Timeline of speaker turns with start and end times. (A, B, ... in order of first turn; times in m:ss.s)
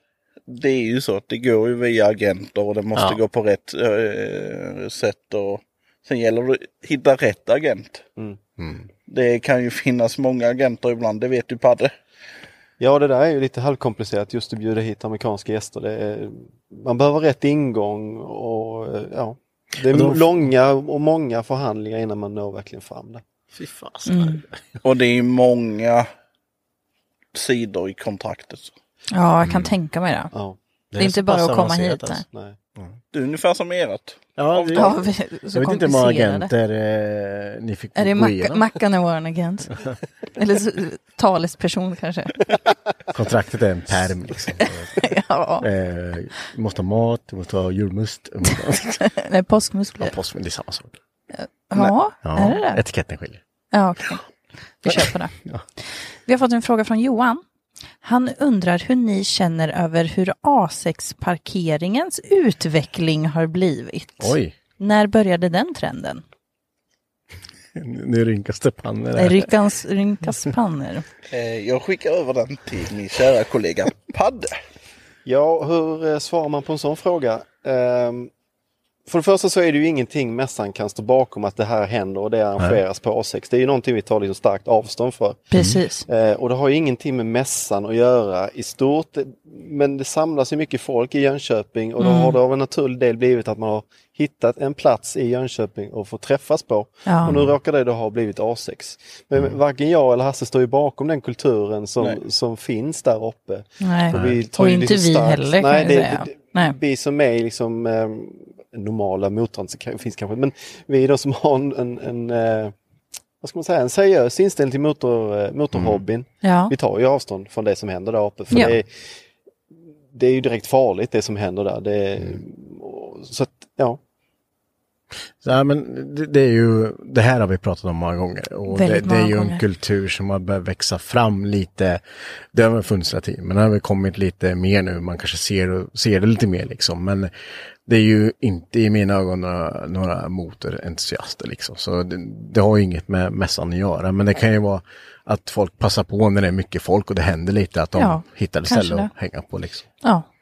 0:00.5-0:08.0 A
0:08.6-0:08.9 B
0:09.1-0:11.9 A
0:12.8-0:23.2 C
0:19.9-0:20.4 B
0:23.6-0:24.8 B
0:24.1-0:24.4 D
0:24.8-0:26.1 A
0:27.3-0:28.7 A
0:29.1-0:30.3 D
0:29.4-0:29.7 B
0:30.9-0:32.2 B
0:31.0-0:32.3 D
0:32.3-0:32.6 C
0:33.1-0:34.9 A
0:34.4-0:35.0 B
0:34.7-0:36.5 D
0:35.5-0:38.6 B
0:38.0-0:39.7 D
0:40.4-0:42.5 D
0:43.1-0:45.0 B
0:44.6-0:45.7 D
0:45.6-0:49.0 B
0:48.5-0:50.1 D
0:50.0-0:51.0 B
0:51.3-0:52.8 D
0:52.2-0:53.4 B
0:53.7-0:54.2 D
0:54.8-0:55.3 D
0:54.8-0:55.6 B
0:56.3-0:57.4 D
0:58.0-1:06.2 D
1:04.2-1:04.6 B
1:07.8-1:09.5 B
1:09.2-1:11.1 D
1:11.3-1:14.6 A
1:15.3-1:18.3 C
1:19.1-1:25.4 C
1:25.5-1:26.1 D
1:25.5-1:25.8 B
1:26.1-1:52.7 C
1:32.0-1:32.4 D
1:37.1-1:37.4 D
1:43.8-1:46.8 D
1:44.1-1:44.4 B
1:53.4-1:58.9 C
1:55.7-1:56.0 B
1:56.4-1:56.7 D
1:58.5-1:58.8 D
2:00.1-2:04.0 C
2:05.4-2:12.0 B
2:08.7-2:09.6 D
2:12.5-2:17.3 B
2:17.9-2:29.8 B
2:28.0-2:29.1 D